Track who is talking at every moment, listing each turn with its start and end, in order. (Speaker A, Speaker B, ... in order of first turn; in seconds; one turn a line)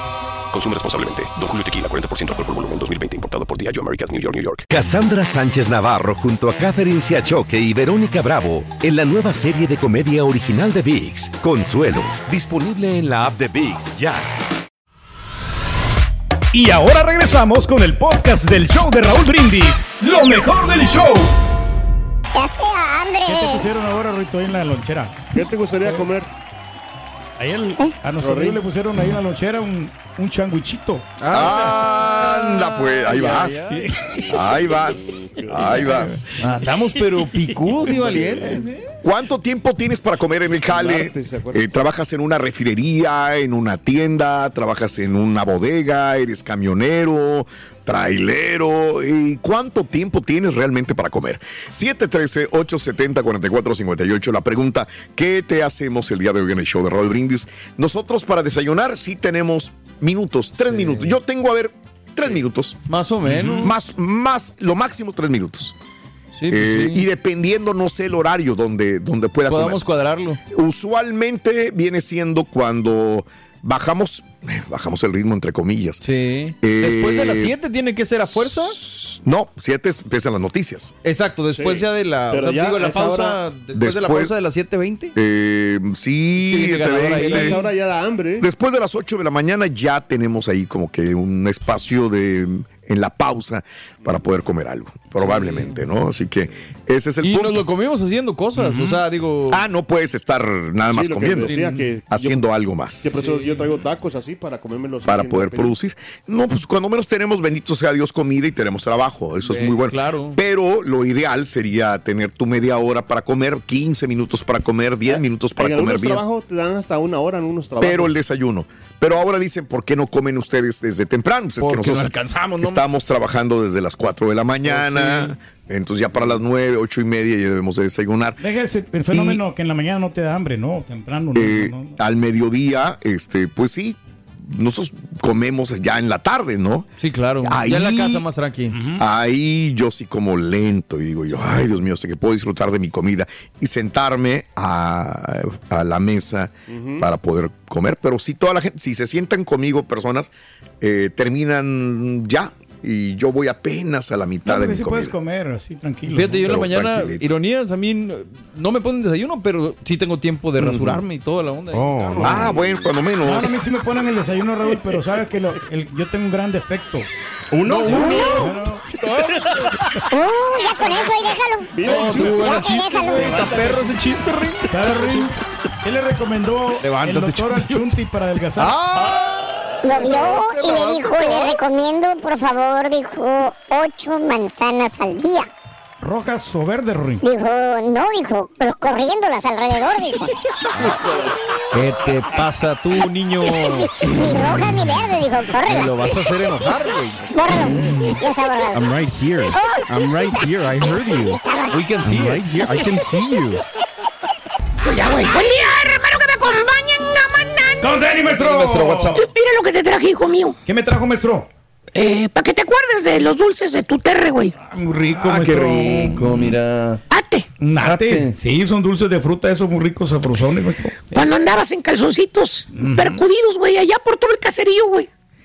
Speaker A: 0.5-4.7
Speaker B: 4.7-14.3
Speaker C: 16.5-21.3
Speaker D: 22.3-23.6
Speaker C: 23.2-25.2
Speaker E: 25.3-26.3
Speaker C: 27.4-31.7
Speaker E: 28.2-28.6
Speaker F: 31.2-33.8
Speaker G: 31.3-33.6
Speaker G: 34.3-36.2
Speaker E: 34.4-36.0
Speaker C: 35.9-36.2
Speaker F: 36.4-38.8
Speaker C: 37.9-38.5
Speaker G: 39.0-65.7
Speaker E: 40.6-41.8
Speaker F: 60.7-61.1
Speaker F: 62.9-63.7
Speaker F: 66.3-67.0
Speaker G: 66.5-69.8
Speaker F: 69.5-70.4
Speaker G: 70.5-76.0
Speaker F: 76.0-78.8
Speaker G: 76.6-77.5
Speaker G: 78.3-80.9
Speaker F: 81.0-85.1
Speaker E: 81.5-83.4
Speaker G: 83.7-84.3
Speaker G: 85.1-87.6
Speaker F: 86.4-87.6
Speaker E: 87.1-88.4
Speaker G: 88.4-97.6
Speaker F: 95.2-95.8
Speaker F: 97.2-99.6
Speaker G: 98.6-101.5
Speaker E: 100.9-102.4
Speaker F: 101.4-101.9
Speaker G: 102.1-103.1
Speaker E: 103.0-105.7
Speaker F: 103.1-103.8
Speaker G: 105.0-116.2
Speaker F: 109.4-110.4
Speaker E: 115.1-118.2
Speaker G: 117.8-128.4
Speaker F: 121.6-122.8
Speaker C: 122.0-122.3
Speaker E: 124.6-125.3
Speaker C: 128.4-131.9
Speaker G: 129.1-129.4
Speaker G: 131.3-136.9
Speaker F: 137.0-138.7
Speaker G: 137.4-138.2
Speaker C: 138.7-139.0
Speaker G: 139.0-155.1
Speaker E: 146.7-147.1
Speaker C: 154.4-156.4
Speaker F: 156.1-162.5
Speaker G: 156.4-157.3
Speaker G: 160.6-160.9
Speaker H: 161.7-162.6
Speaker G: 162.2-163.6
Speaker C: 163.2-167.1
Speaker H: 167.5-168.2
Speaker F: 167.6-169.7
Speaker C: 167.9-168.8
Speaker E: 167.9-168.6
Speaker E: 169.1-169.4
Speaker D: 170.1-173.4
Speaker E: 171.7-174.2
Speaker F: 171.8-175.2
Speaker C: 173.2-173.6
Speaker C: 174.7-179.2
Speaker F: 176.8-177.8
Speaker F: 178.6-181.5
Speaker D: 179.8-185.5
Speaker C: 186.0-187.2
Speaker D: 187.2-190.3
Speaker F: 191.7-194.4
Speaker D: 193.7-195.9
Speaker F: 195.6-197.3
Speaker D: 197.3-198.9
Speaker H: 197.6-198.1
Speaker H: 198.7-201.4
Speaker D: 199.5-199.8
Speaker D: 201.4-201.7
Speaker F: 201.7-202.7
Speaker H: 202.0-203.6
Speaker I: 204.8-207.9
Speaker C: 207.8-209.2
Speaker F: 208.3-209.2
Speaker I: 209.1-210.5
Speaker C: 210.7-211.5
Speaker I: 211.9-214.5
Speaker C: 214.6-216.3
Speaker F: 215.2-217.0
Speaker I: 217.1-217.4
Speaker C: 217.6-221.2
Speaker F: 217.8-218.3
Speaker I: 221.1-225.1
Speaker C: 222.7-223.2